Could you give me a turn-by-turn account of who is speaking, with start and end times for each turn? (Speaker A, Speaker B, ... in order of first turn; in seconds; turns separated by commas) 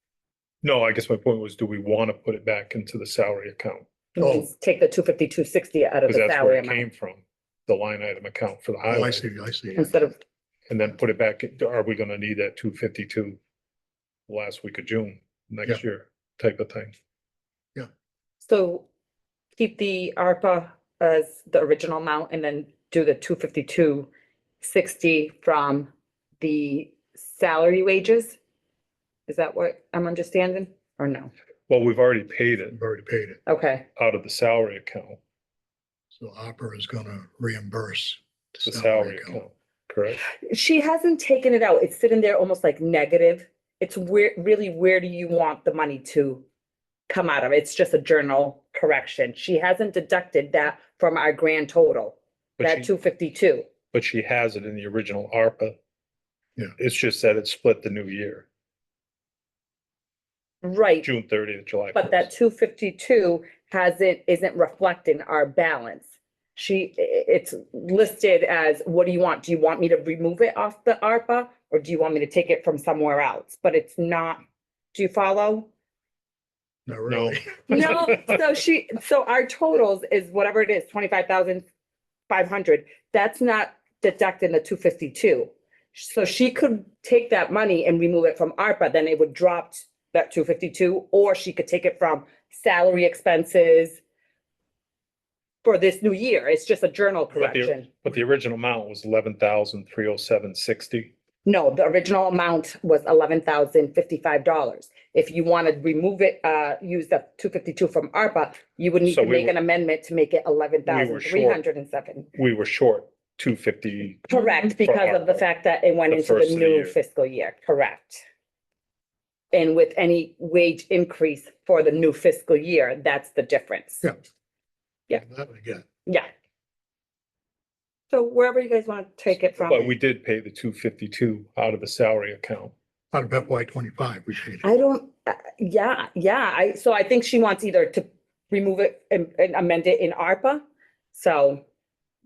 Speaker A: 0.6-3.9, Speaker B: 4.2-6.8, Speaker C: 4.2-4.5, Speaker A: 6.1-9.2, Speaker C: 8.9-10.0, Speaker B: 9.8-10.2, Speaker A: 10.7-13.4, Speaker A: 14.3-16.9, Speaker B: 18.4-18.9, Speaker B: 19.6-24.1, Speaker B: 24.6-28.4, Speaker B: 29.3-31.3, Speaker A: 31.7-32.8, Speaker C: 32.7-33.4, Speaker B: 33.5-33.9, Speaker A: 34.0-35.2, Speaker C: 36.1-39.4, Speaker A: 38.6-40.2, Speaker B: 40.3-46.5, Speaker B: 47.1-53.7, Speaker A: 52.6-52.9, Speaker A: 53.9-55.7, Speaker A: 56.8-58.5, Speaker B: 60.6-61.1, Speaker A: 61.0-62.3, Speaker B: 61.9-74.4, Speaker B: 74.9-75.7, Speaker C: 76.9-77.8, Speaker A: 77.1-78.2, Speaker B: 77.7-81.7, Speaker B: 82.3-94.0, Speaker B: 95.6-97.9, Speaker A: 97.3-101.1, Speaker B: 101.4-112.3, Speaker A: 109.0-109.5, Speaker A: 110.9-111.6, Speaker A: 112.3-115.4, Speaker B: 114.3-118.2, Speaker A: 116.1-117.0, Speaker B: 119.5-124.1, Speaker C: 125.1-125.8, Speaker B: 128.1-129.9, Speaker A: 129.7-132.7, Speaker C: 133.1-134.7, Speaker B: 134.6-140.6, Speaker B: 141.1-141.6